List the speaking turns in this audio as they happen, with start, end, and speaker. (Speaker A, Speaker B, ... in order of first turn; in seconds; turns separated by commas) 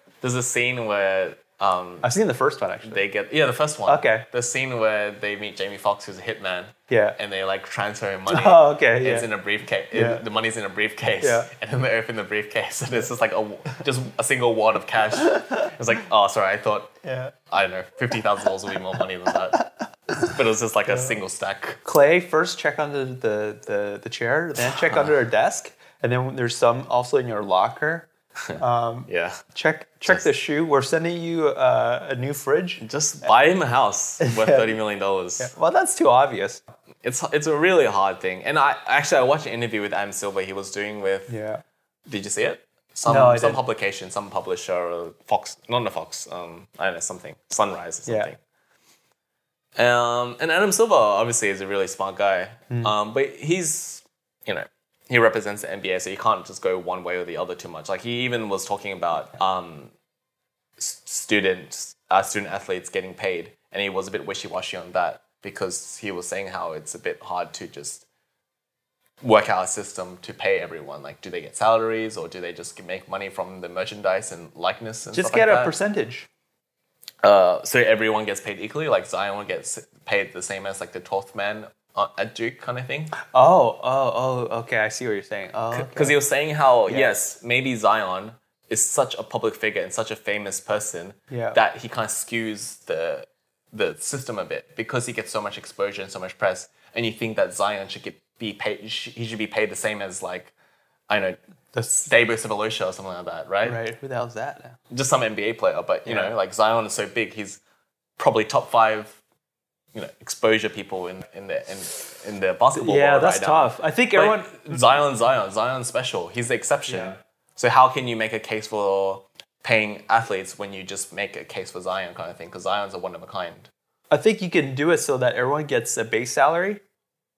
Speaker A: 0.2-2.1, Speaker B: 2.0-3.0, Speaker A: 2.8-16.9, Speaker B: 3.9-4.2, Speaker B: 6.9-7.2, Speaker B: 8.3-9.3, Speaker B: 9.9-10.2, Speaker B: 11.2-11.5, Speaker B: 15.2-15.7, Speaker B: 17.0-17.3, Speaker A: 17.5-21.8, Speaker B: 21.9-33.3, Speaker A: 28.5-29.4, Speaker A: 32.8-35.5, Speaker B: 34.2-34.8, Speaker B: 35.4-36.6, Speaker A: 37.0-41.3, Speaker B: 41.3-41.6, Speaker A: 42.1-48.4, Speaker B: 43.1-43.6, Speaker A: 49.8-59.9, Speaker A: 60.8-68.1, Speaker A: 69.2-75.7, Speaker B: 75.1-76.3, Speaker A: 77.2-83.1, Speaker B: 83.2-86.2, Speaker A: 85.7-100.5, Speaker B: 86.9-87.1, Speaker B: 91.3-91.6, Speaker A: 101.1-101.4, Speaker B: 101.8-102.1, Speaker A: 101.9-103.8, Speaker B: 103.7-104.8, Speaker A: 104.9-107.6, Speaker B: 106.1-106.3, Speaker A: 108.2-109.2, Speaker A: 109.9-123.7, Speaker B: 112.8-115.0, Speaker B: 116.9-117.2, Speaker B: 124.1-126.8